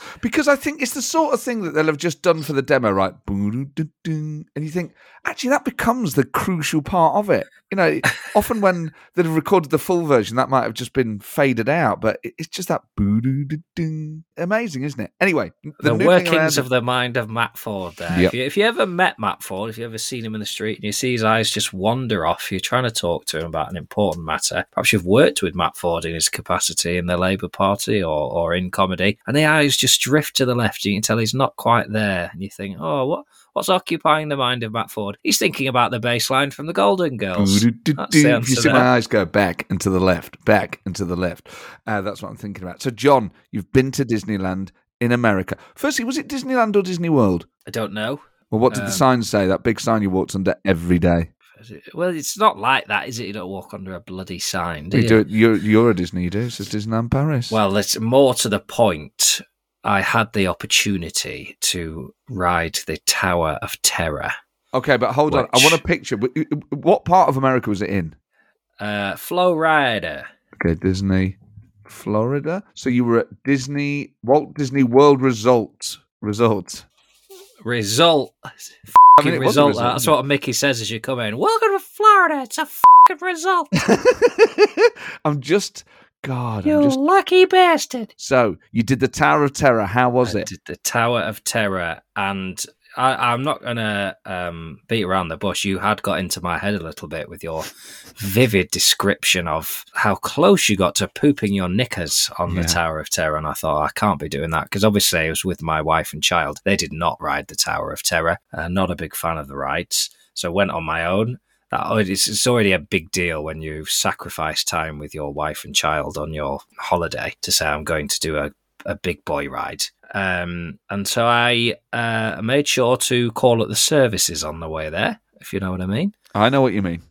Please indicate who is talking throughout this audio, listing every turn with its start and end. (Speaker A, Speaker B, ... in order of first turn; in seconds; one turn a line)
Speaker A: 0.2-16.7
Speaker B: 15.8-38.9
Speaker A: 37.4-47.5
Speaker B: 47.7-49.0
Speaker A: 48.5-51.3
Speaker B: 51.6-55.2
Speaker A: 54.9-57.6
Speaker B: 57.5-64.3
Speaker A: 64.7-68.2
Speaker B: 65.3-65.8
Speaker B: 68.8-70.3
Speaker A: 70.6-76.9
Speaker B: 77.6-83.9
Speaker A: 79.2-80.2
Speaker A: 83.8-87.0
Speaker B: 86.7-88.1
Speaker A: 88.2-90.5
Speaker B: 90.2-126.1
Speaker A: 102.5-102.8
Speaker A: 126.3-127.0